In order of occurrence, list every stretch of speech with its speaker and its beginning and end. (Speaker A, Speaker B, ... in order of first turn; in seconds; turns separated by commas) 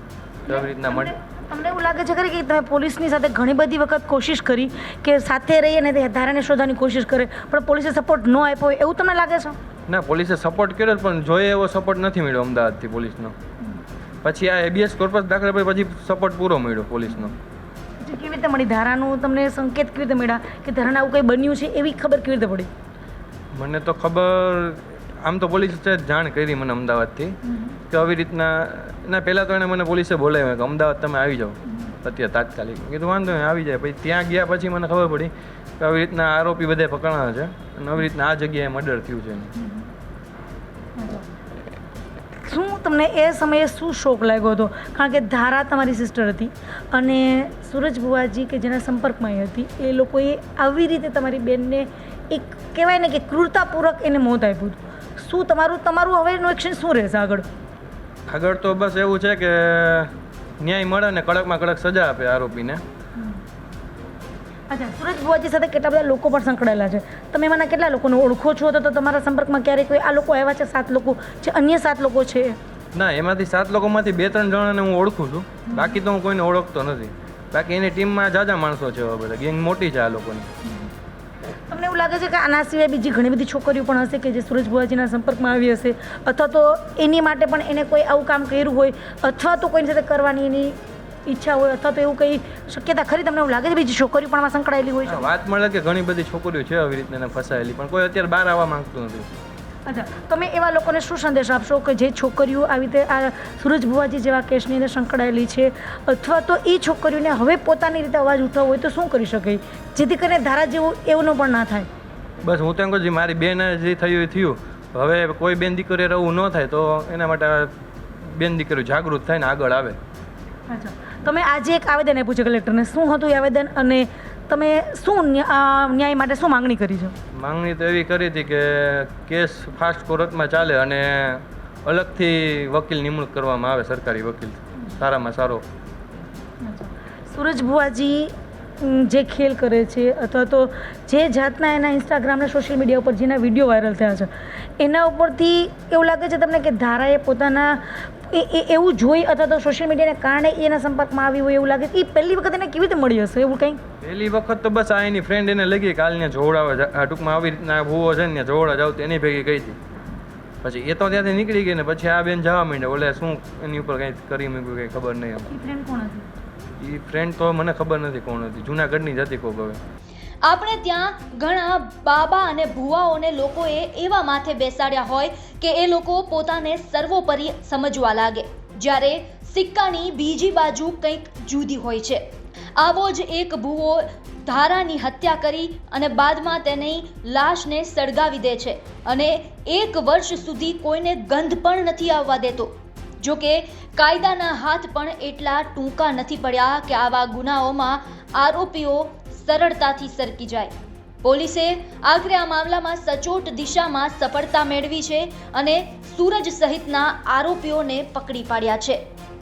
Speaker A: 0.5-9.6, Speaker B: 0.5-1.1, Speaker B: 9.9-13.3, Speaker B: 14.2-17.3, Speaker A: 18.0-22.7, Speaker B: 23.5-39.5, Speaker A: 27.4-27.8, Speaker A: 41.0-41.2, Speaker A: 42.4-57.5, Speaker B: 58.3-62.8, Speaker A: 64.7-72.5, Speaker B: 72.9-80.5, Speaker A: 75.7-76.0, Speaker A: 81.7-95.3, Speaker B: 95.0-99.3, Speaker A: 99.9-111.9, Speaker B: 112.4-120.0, Speaker A: 120.7-127.1, Speaker B: 127.3-135.6, Speaker A: 136.6-153.8, Speaker B: 154.0-159.8, Speaker B: 160.6-165.5, Speaker A: 165.5-166.3, Speaker B: 166.8-169.8, Speaker C: 170.4-182.2, Speaker C: 182.8-209.1